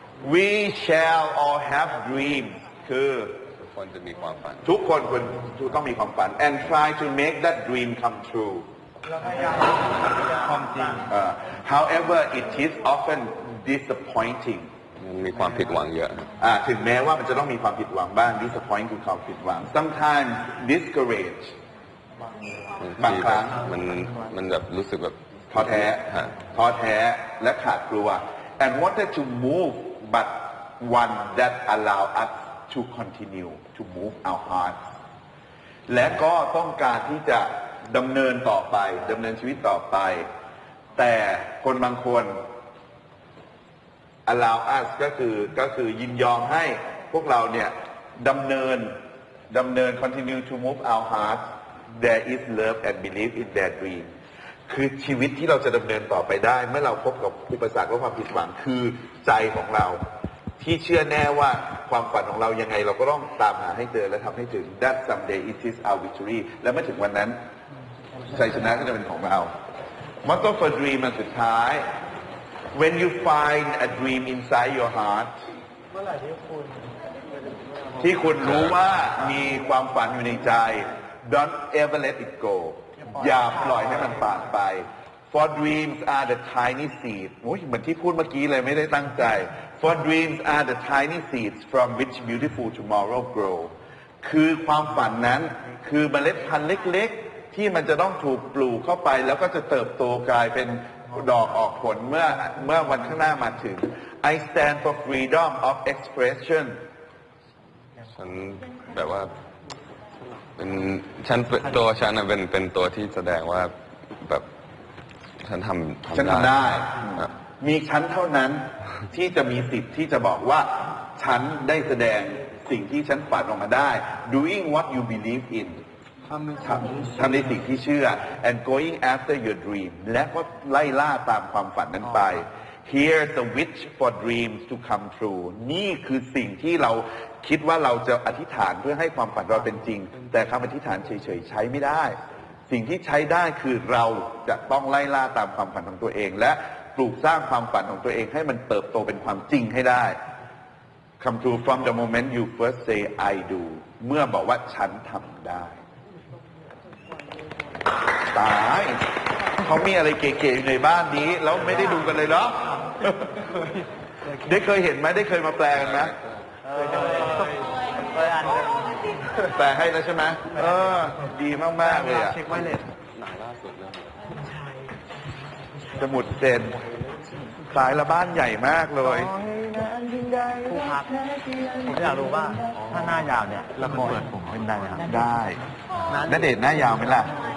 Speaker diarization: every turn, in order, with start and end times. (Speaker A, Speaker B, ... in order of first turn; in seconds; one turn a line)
Speaker A: 0.2-3.4
Speaker B: 3.6-4.7
Speaker A: 4.7-8.7
Speaker C: 9.2-11.0
Speaker A: 10.9-14.7
Speaker B: 15.0-16.3
Speaker A: 16.4-21.6
Speaker B: 22.8-26.4
Speaker A: 23.0-23.6
Speaker A: 25.5-34.8
Speaker A: 35.9-40.3
Speaker A: 41.0-42.4
Speaker A: 44.3-49.0
Speaker A: 49.5-54.1
Speaker A: 54.7-60.0
Speaker A: 60.6-67.4
Speaker A: 68.3-69.5
Speaker A: 70.2-71.9
Speaker A: 72.7-75.3
Speaker A: 78.0-93.7
Speaker A: 94.2-106.8
Speaker B: 108.2-109.4
Speaker B: 110.6-114.5
Speaker B: 115.4-116.5
Speaker A: 116.1-125.8
Speaker A: 126.5-142.2
Speaker A: 142.7-150.2
Speaker A: 151.2-155.8
Speaker A: 158.3-159.0
Speaker A: 159.6-163.4
Speaker A: 164.3-166.2
Speaker B: 165.9-166.4
Speaker C: 166.7-169.0
Speaker A: 169.4-172.5
Speaker C: 171.9-172.8
Speaker B: 172.9-174.2
Speaker A: 176.0-176.8
Speaker A: 177.7-179.4
Speaker C: 179.1-185.1
Speaker A: 185.0-185.6
Speaker A: 186.2-187.3